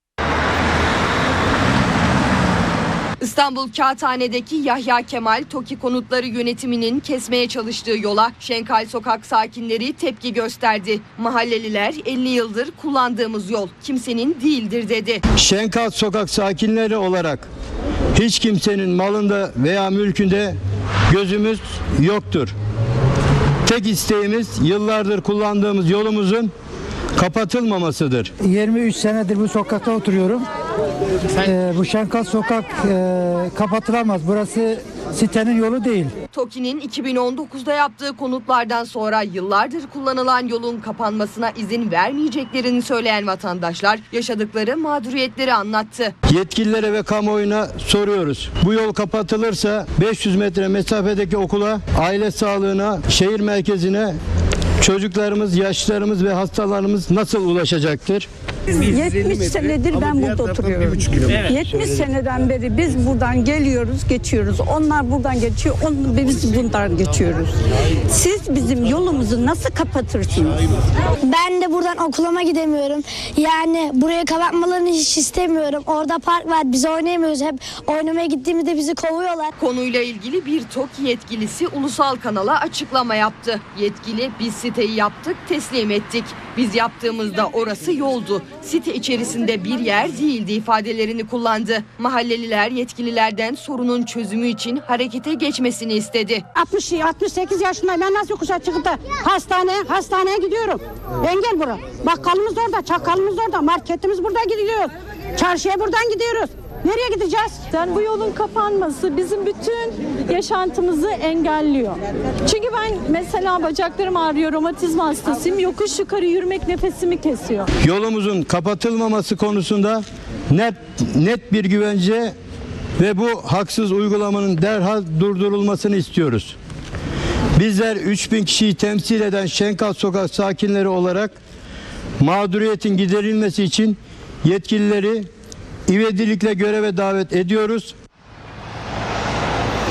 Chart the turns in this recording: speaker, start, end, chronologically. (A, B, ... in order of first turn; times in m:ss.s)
0:03.2-0:15.2 A
0:15.3-0:17.5 B
0:18.1-0:20.6 B
0:21.1-0:22.5 B
0:23.6-0:26.5 B
0:27.1-0:28.3 B
0:28.4-0:30.4 C
0:31.4-0:36.1 C
0:36.3-0:46.1 A
0:46.3-0:54.2 B
0:54.8-0:58.3 B
0:58.7-1:07.5 D
1:08.1-1:10.6 D
1:11.2-1:19.5 E
1:19.6-1:36.4 A
1:36.5-1:47.6 F
1:47.7-1:57.7 G
1:57.8-2:02.4 B
2:03.0-2:06.6 B
2:07.6-2:11.4 B
2:12.2-2:15.3 B
2:15.9-2:17.9 B